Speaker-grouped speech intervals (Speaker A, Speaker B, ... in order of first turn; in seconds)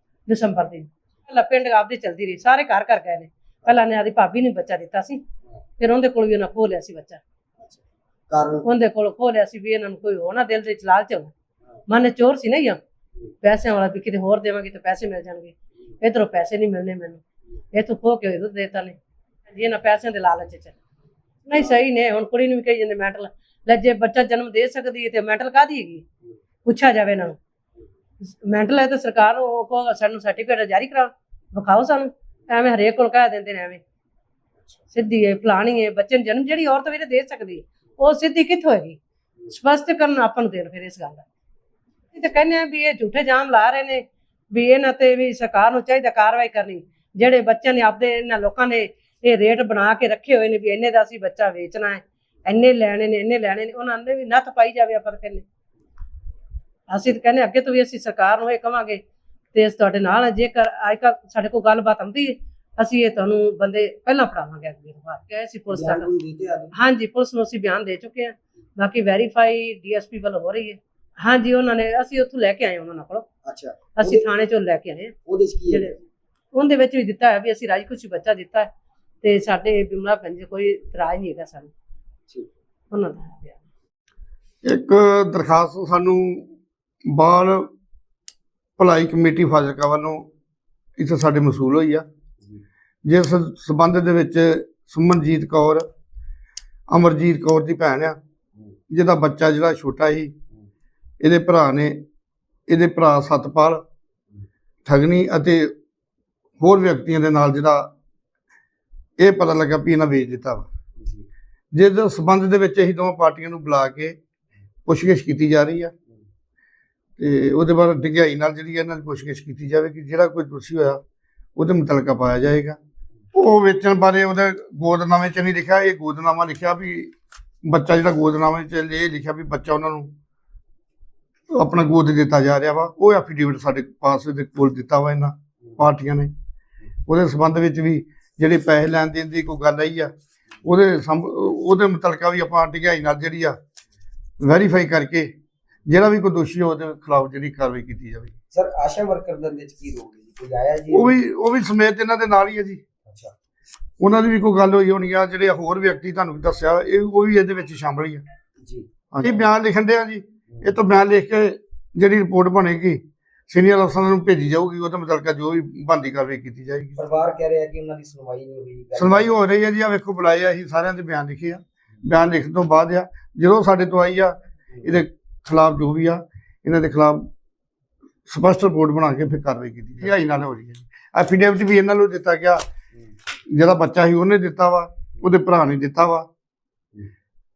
Speaker A: 0.3-5.2, 5.8-7.2, 8.6-11.3, 11.9-12.8, 13.4-17.2, 17.7-18.9, 19.5-20.8, 21.4-26.0, 26.6-27.4, 28.3-33.8, 34.9-39.0, 39.5-41.2, 42.1-55.4, 56.9-59.0, 59.5-66.1, 66.7-73.2, 74.0-75.1, 75.7-76.0, 76.5-78.7, 79.2-81.7, 82.9-83.6
Speaker B: 7.6-8.7, 65.7-66.7, 73.4-74.3, 75.3-76.0, 111.0-111.2, 148.5-151.2, 153.1-153.3, 166.9-169.3
Speaker C: 84.6-86.4, 87.1-87.7, 88.8-90.2, 91.0-92.0, 93.0-95.8, 96.9-98.2, 98.9-100.3, 101.2-102.0, 102.7-103.8, 104.8-105.7, 106.6-107.9, 109.2-110.7, 111.7-114.2, 114.8-115.9, 117.2-121.0, 121.5-122.8, 123.3-127.1, 127.6-130.1, 131.5-136.3, 137.1-140.1, 140.6-143.6, 144.4-145.3, 145.8-148.3, 150.9-152.8, 154.0-158.2, 159.1-167.0, 168.9-177.3, 178.3-182.6, 183.5-186.3